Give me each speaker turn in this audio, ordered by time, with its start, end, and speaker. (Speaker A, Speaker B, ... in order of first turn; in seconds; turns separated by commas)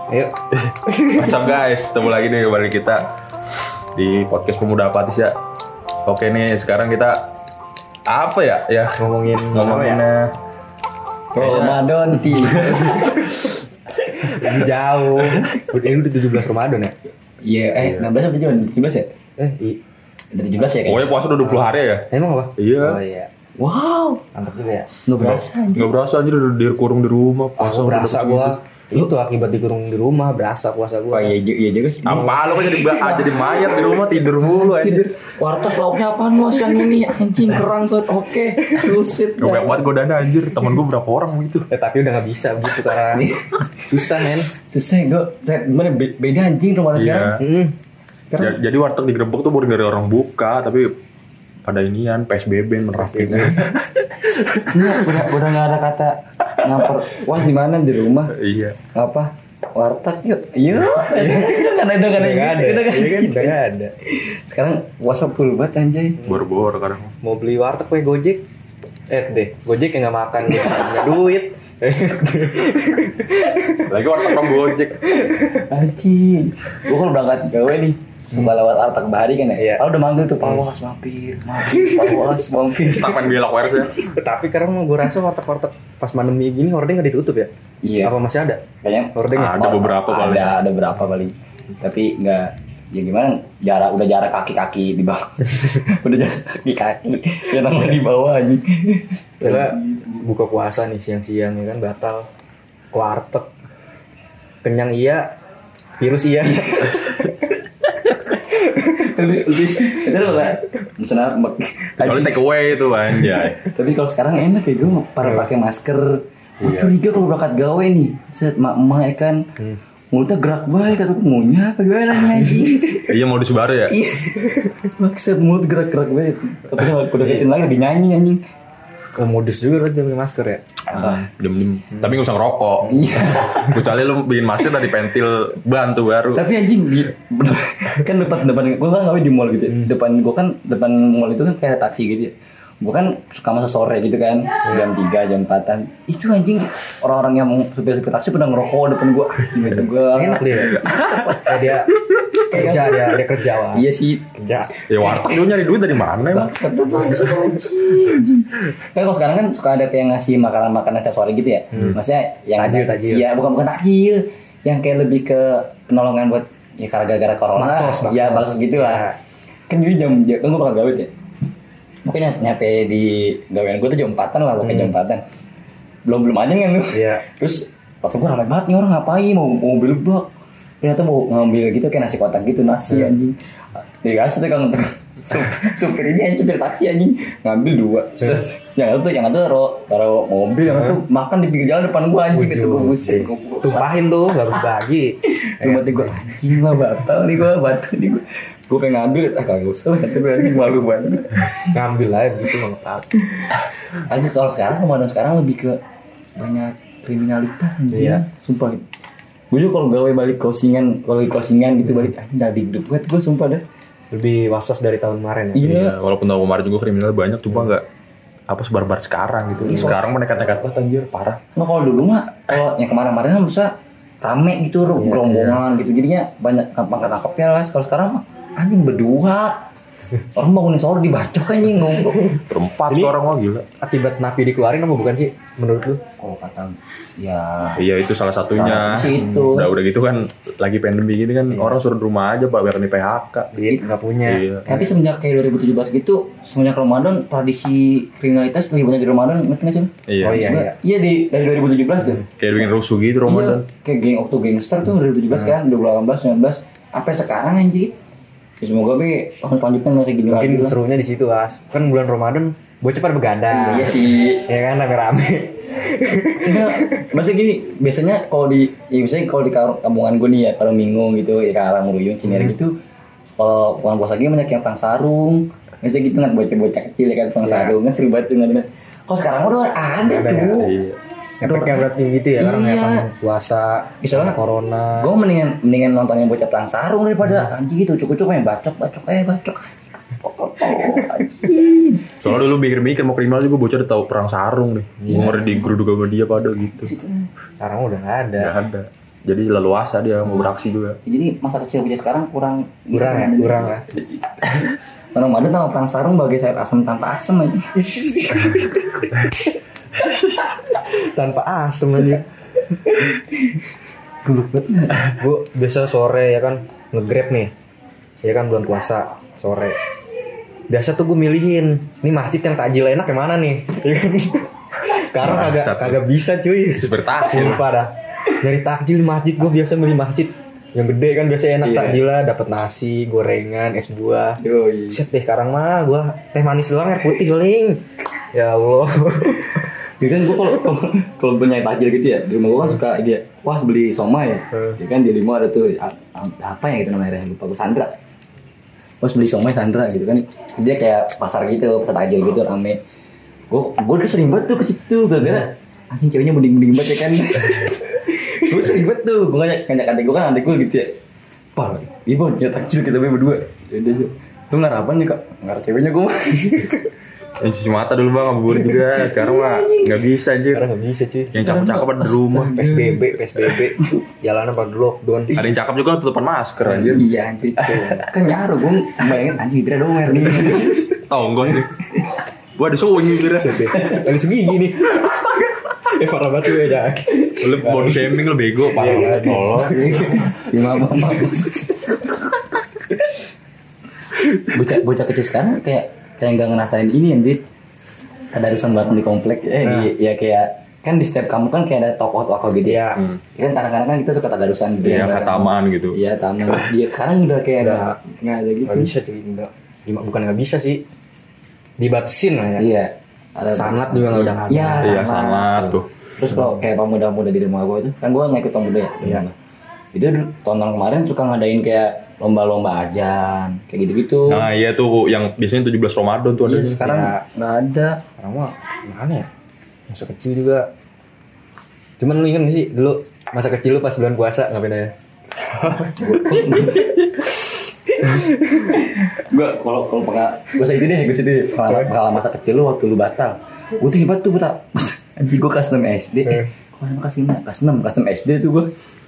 Speaker A: 0.1-1.5, Speaker B: 0.6-3.1, Speaker B: 4.0-5.3, Speaker B: 6.0-7.3, Speaker B: 8.1-10.3, Speaker A: 9.0-10.0, Speaker C: 11.3-13.5, Speaker B: 11.4-13.3, Speaker A: 14.2-16.9, Speaker B: 15.2-15.5, Speaker C: 17.4-19.1, Speaker B: 17.8-18.1, Speaker A: 19.4-19.8, Speaker C: 20.3-21.2, Speaker B: 20.8-23.0, Speaker A: 21.4-23.3, Speaker C: 23.6-24.2, Speaker A: 24.3-24.9, Speaker C: 25.1-25.9, Speaker B: 25.2-28.6, Speaker A: 27.6-31.4, Speaker C: 31.1-39.9, Speaker B: 32.0-35.1, Speaker B: 39.4-41.7, Speaker A: 41.7-43.3, Speaker C: 43.1-47.4, Speaker A: 43.9-44.5, Speaker B: 47.0-47.4, Speaker A: 47.4-47.8, Speaker B: 48.4-50.9, Speaker B: 51.6-55.2, Speaker A: 52.9-53.8, Speaker C: 54.7-58.3, Speaker B: 56.6-56.9, Speaker B: 58.3-58.8, Speaker C: 58.9-66.3, Speaker A: 61.1-64.0, Speaker B: 66.2-67.1, Speaker A: 67.2-68.5, Speaker A: 69.1-75.6, Speaker C: 70.5-71.1, Speaker B: 73.9-75.0, Speaker C: 75.2-83.3, Speaker A: 79.6-79.8, Speaker B: 82.8-84.0, Speaker A: 84.0-87.5, Speaker C: 87.8-88.2, Speaker A: 88.0-90.0, Speaker C: 88.8-100.2, Speaker B: 89.3-90.6, Speaker A: 99.4-102.3, Speaker A: 102.9-103.5, Speaker A: 104.6-105.3, Speaker A: 106.0-107.2, Speaker C: 106.5-107.2, Speaker C: 108.3-112.4, Speaker B: 112.0-113.6, Speaker C: 113.6-119.4, Speaker B: 116.6-116.9, Speaker C: 120.1-123.1, Speaker B: 122.9-124.0, Speaker C: 123.9-128.4, Speaker A: 129.2-130.7, Speaker C: 130.9-131.2, Speaker B: 130.9-136.4, Speaker C: 132.9-133.9, Speaker C: 136.3-151.7, Speaker A: 149.6-150.8, Speaker A: 151.4-152.0, Speaker C: 152.4-153.2, Speaker A: 152.5-154.7, Speaker C: 153.7-154.2, Speaker B: 154.9-156.6, Speaker C: 155.0-155.3, Speaker C: 156.2-169.1, Speaker A: 162.6-163.2, Speaker A: 167.6-169.2, Speaker C: 169.7-171.1, Speaker C: 172.1-175.2, Speaker A: 174.6-174.9, Speaker C: 176.1-180.3, Speaker A: 176.9-177.2, Speaker C: 180.8-183.3, Speaker C: 184.0-193.9, Speaker A: 190.7-191.0, Speaker A: 192.3-196.4, Speaker C: 195.3-201.6, Speaker A: 201.6-203.2, Speaker C: 203.9-205.8, Speaker C: 206.3-208.8, Speaker A: 207.9-208.2, Speaker C: 209.5-213.6, Speaker A: 214.1-215.8, Speaker C: 215.6-215.9, Speaker B: 215.6-217.8, Speaker B: 218.5-221.4, Speaker C: 219.6-220.0, Speaker A: 219.7-219.9, Speaker C: 221.6-229.6, Speaker A: 224.9-225.6, Speaker C: 230.3-232.4, Speaker B: 232.4-233.7, Speaker A: 232.9-233.2, Speaker A: 233.8-236.0, Speaker C: 236.2-237.8, Speaker B: 237.8-243.5, Speaker C: 238.5-239.7, Speaker A: 239.2-239.5, Speaker A: 241.5-241.8, Speaker A: 243.5-244.9, Speaker B: 244.2-244.7, Speaker C: 244.7-252.3, Speaker B: 250.1-250.5, Speaker A: 250.2-250.8, Speaker B: 252.4-253.6, Speaker C: 253.3-257.9, Speaker C: 258.6-260.8, Speaker A: 260.3-267.1, Speaker C: 263.5-264.5, Speaker C: 266.4-272.7, Speaker A: 272.3-272.5, Speaker C: 273.4-280.7, Speaker A: 277.4-277.8, Speaker A: 279.9-280.7, Speaker B: 280.5-281.0, Speaker A: 281.4-285.1, Speaker C: 281.4-281.8, Speaker C: 282.4-283.1, Speaker C: 284.0-284.4, Speaker C: 285.0-292.1, Speaker B: 292.2-296.9, Speaker A: 295.0-295.4, Speaker C: 295.1-295.6, Speaker C: 296.8-297.3, Speaker A: 297.6-298.5, Speaker B: 298.4-301.0, Speaker C: 301.1-309.1, Speaker A: 302.9-303.9, Speaker A: 307.9-308.7, Speaker A: 310.8-312.3, Speaker C: 312.8-313.6, Speaker C: 314.2-315.1, Speaker A: 315.1-317.5, Speaker A: 318.2-319.8, Speaker A: 320.7-334.4, Speaker B: 325.1-326.0, Speaker B: 326.7-327.6, Speaker C: 331.6-332.0, Speaker C: 334.4-335.0, Speaker A: 334.9-339.6, Speaker C: 339.4-347.9, Speaker C: 349.0-352.8, Speaker C: 353.5-360.9, Speaker C: 361.6-366.8, Speaker B: 367.4-370.7, Speaker C: 368.9-370.0, Speaker A: 370.5-371.4, Speaker B: 371.3-372.5, Speaker C: 371.4-374.0, Speaker A: 372.5-375.4, Speaker B: 375.3-377.0, Speaker C: 376.6-380.9, Speaker A: 377.6-378.1, Speaker B: 380.9-381.8, Speaker B: 382.6-383.7, Speaker A: 383.3-390.3, Speaker C: 383.7-384.0, Speaker B: 387.4-390.0, Speaker C: 389.2-393.2, Speaker C: 394.4-397.4, Speaker C: 398.3-408.9, Speaker A: 399.6-399.9, Speaker A: 402.6-403.0, Speaker B: 402.9-403.2, Speaker B: 404.8-406.0, Speaker A: 407.6-408.0, Speaker A: 408.6-410.8, Speaker A: 411.8-412.7, Speaker C: 412.6-419.3, Speaker A: 413.5-415.0, Speaker B: 414.8-415.9, Speaker A: 416.3-416.6, Speaker C: 419.9-424.5, Speaker B: 424.3-426.9, Speaker C: 426.4-428.0, Speaker A: 426.8-427.2, Speaker A: 428.2-429.3, Speaker A: 429.9-430.7, Speaker A: 432.0-434.9, Speaker B: 435.5-435.9, Speaker C: 435.7-437.0, Speaker C: 437.9-448.7, Speaker A: 438.2-438.7